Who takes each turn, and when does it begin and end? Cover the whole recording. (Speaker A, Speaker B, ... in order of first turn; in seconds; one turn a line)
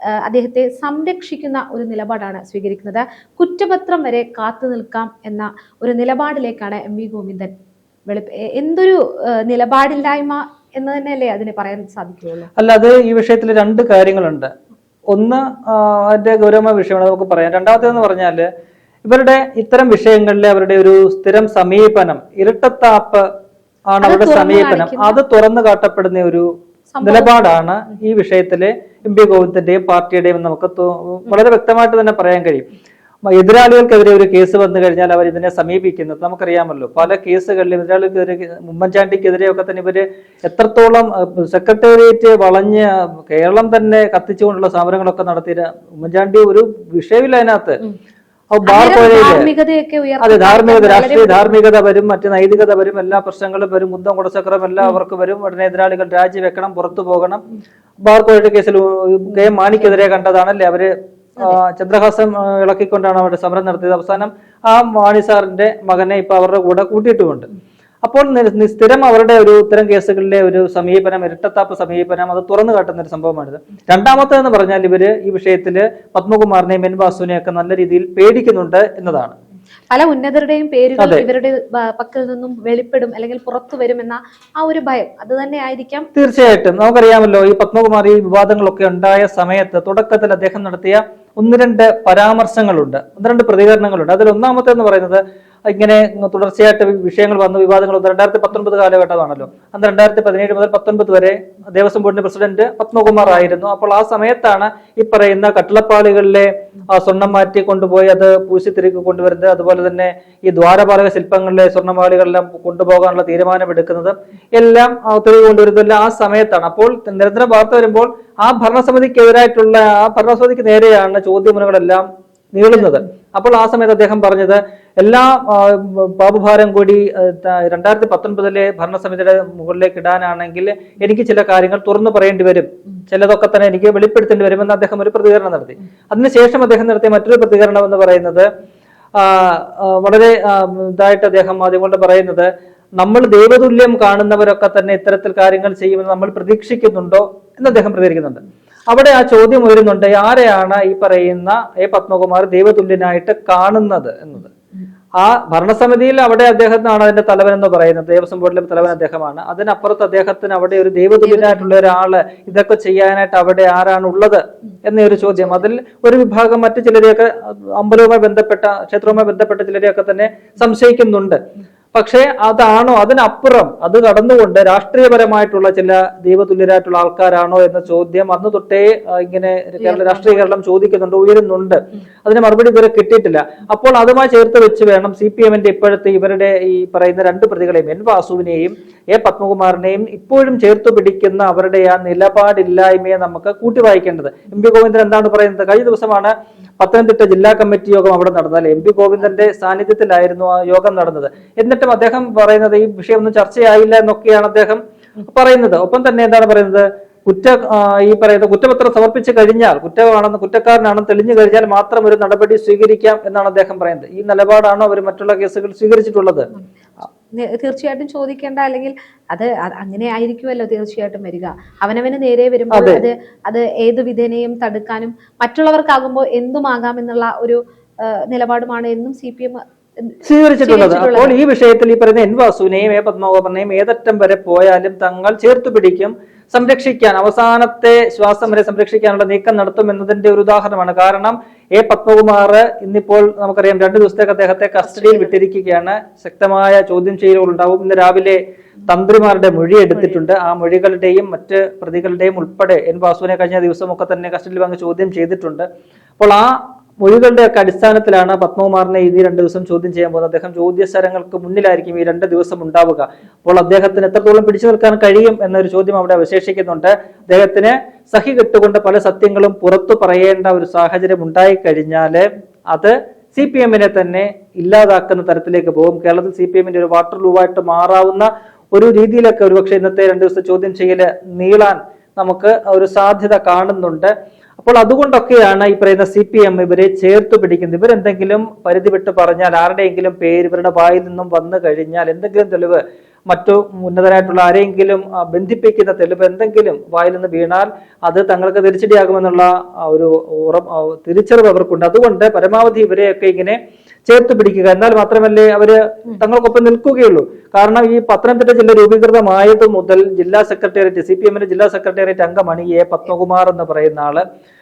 Speaker A: 0.2-7.5
Speaker A: 8.1-12.5
Speaker B: 12.6-14.5
Speaker B: 15.1-18.5
Speaker B: 19.1-23.3
Speaker B: 23.9-26.5
Speaker A: 24.0-25.2
Speaker A: 26.9-27.3
Speaker B: 27.0-32.6
Speaker B: 33.3-47.8
Speaker B: 48.5-49.5
Speaker A: 48.7-51.5
Speaker B: 50.2-57.4
Speaker B: 58.0-67.5
Speaker B: 68.0-79.3
Speaker A: 79.9-86.1
Speaker B: 81.0-81.2
Speaker B: 86.2-138.5
Speaker B: 139.2-154.5
Speaker B: 155.2-171.4
Speaker B: 171.9-216.5
Speaker A: 179.8-180.5
Speaker A: 217.3-231.3
Speaker B: 222.7-223.0
Speaker B: 230.2-255.7
Speaker A: 245.0-245.2
Speaker B: 256.2-314.2